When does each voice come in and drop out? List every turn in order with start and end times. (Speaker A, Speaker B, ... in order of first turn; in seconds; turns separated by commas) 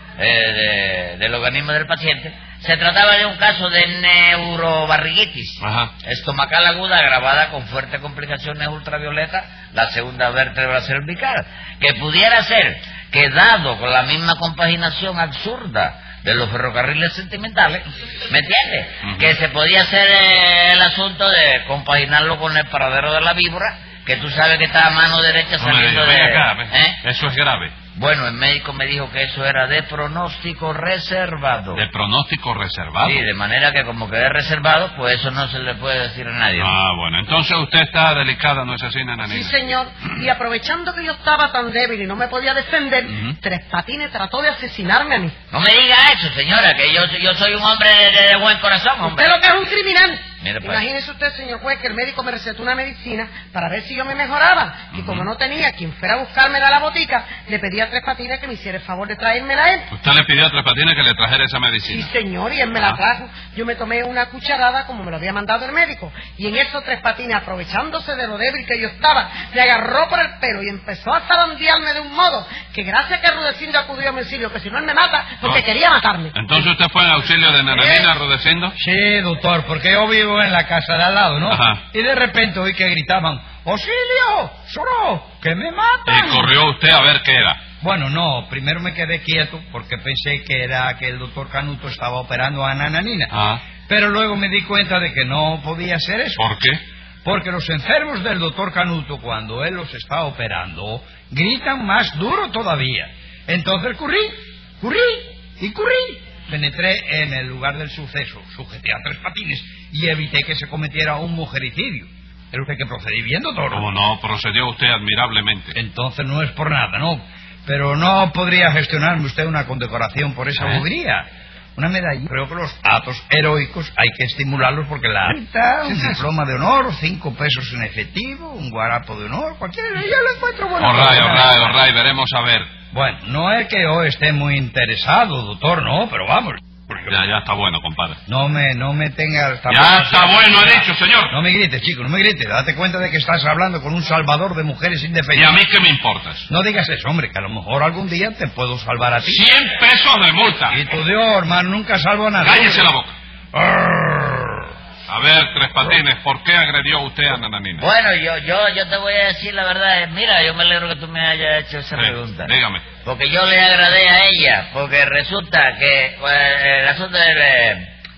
Speaker A: 0.2-27.0, Speaker B: 5.6-5.9, Speaker B: 19.0-19.4, Speaker B: 25.6-27.7, Speaker A: 27.9-31.8, Speaker B: 31.7-33.3, Speaker A: 33.0-36.8, Speaker B: 36.5-39.6, Speaker C: 39.2-45.3, Speaker A: 45.5-49.3, Speaker C: 49.0-59.9, Speaker A: 50.4-50.8, Speaker B: 54.9-55.3, Speaker B: 59.9-62.1, Speaker C: 61.9-76.3, Speaker B: 62.7-63.0, Speaker B: 76.3-78.8, Speaker C: 77.7-78.1, Speaker D: 78.8-86.5, Speaker B: 81.5-81.8, Speaker B: 86.0-87.6, Speaker D: 87.8-93.3, Speaker B: 93.3-93.6, Speaker D: 93.8-96.4, Speaker B: 96.4-96.8, Speaker D: 97.2-113.9, Speaker B: 113.7-115.8, Speaker D: 115.7-131.7, Speaker B: 120.6-120.8, Speaker B: 125.8-126.2, Speaker B: 130.8-132.7, Speaker D: 132.9-137.1, Speaker B: 137.1-138.2, Speaker D: 138.3-145.6, Speaker B: 139.7-141.3, Speaker B: 145.3-146.4, Speaker D: 146.5-149.4, Speaker B: 149.2-150.8, Speaker D: 150.7-152.9, Speaker B: 152.4-153.1, Speaker D: 153.5-154.7, Speaker B: 155.1-157.9, Speaker A: 157.8-167.9, Speaker B: 161.9-162.9